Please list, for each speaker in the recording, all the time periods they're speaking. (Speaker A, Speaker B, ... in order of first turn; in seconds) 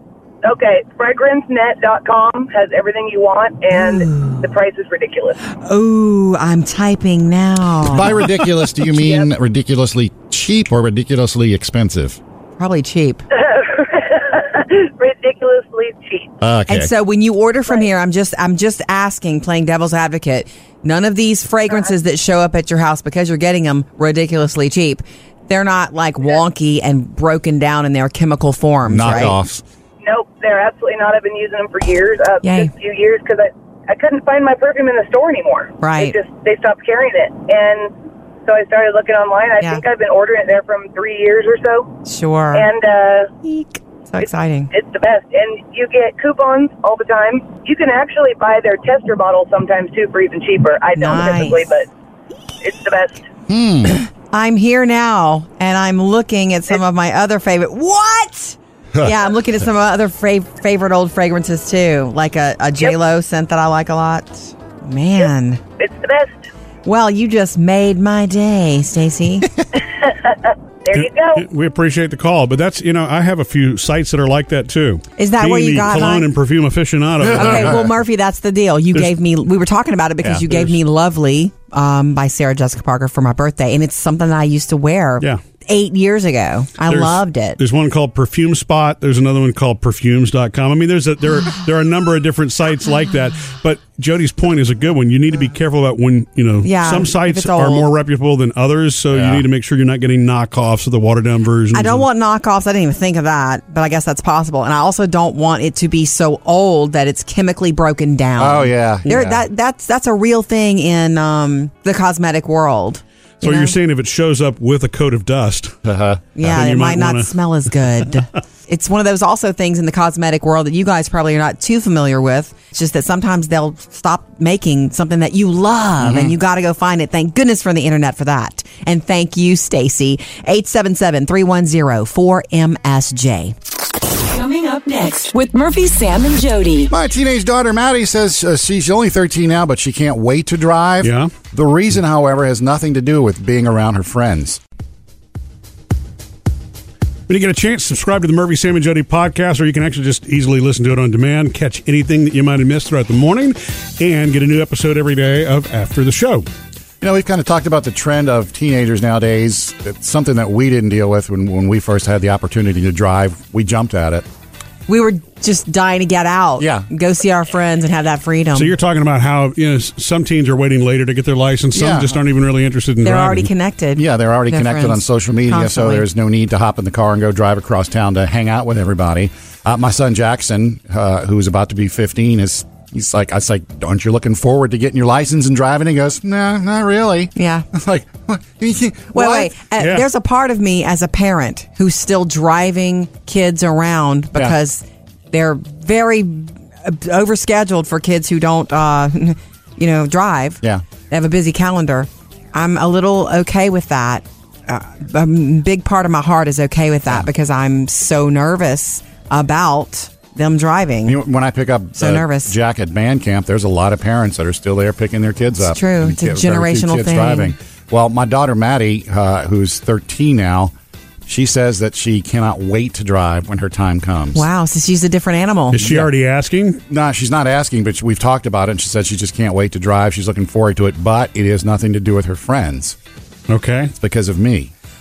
Speaker A: 0.4-5.4, 8.9-9.3, 13.3-16.3, 30.0-37.9, 38.5-41.9, 42.5-43.3, 44.7-51.9, 52.6-53.3, 65.8-66.5, 69.8-71.5
Speaker B: 3.7-4.5, 5.6-8.3, 12.6-13.2, 16.7-29.4, 32.4-32.7, 35.8-36.2, 42.0-42.7, 43.4-44.7, 51.0-51.6, 53.9-65.6, 66.8-69.5, 75.2-76.3, 77.3-87.6, 96.6-97.9, 101.7-113.8, 116.4-133.6, 164.9-168.7, 173.0-176.1, 187.3-187.7, 189.1-211.2, 212.0-212.5, 215.6-217.6, 224.3-225.8
Speaker C: 7.9-12.2, 16.4-16.9, 28.9-29.6, 53.5-54.0, 77.3-77.6, 99.1-99.5, 108.4-109.4, 115.9-116.5, 126.0-126.3, 136.9-144.6, 157.0-164.3, 166.6-166.9, 171.7-172.2, 174.0-189.6, 211.1-220.7, 221.3-224.5, 225.8-226.1, 226.9-233.0, 234.0-234.7
Speaker D: 70.9-77.9, 86.9-102.1, 113.4-115.8, 116.4-117.3, 141.0-141.3, 147.3-156.5, 168.6-173.5, 189.8-190.1, 225.7-226.8, 233.5-233.9
Speaker E: 134.2-136.9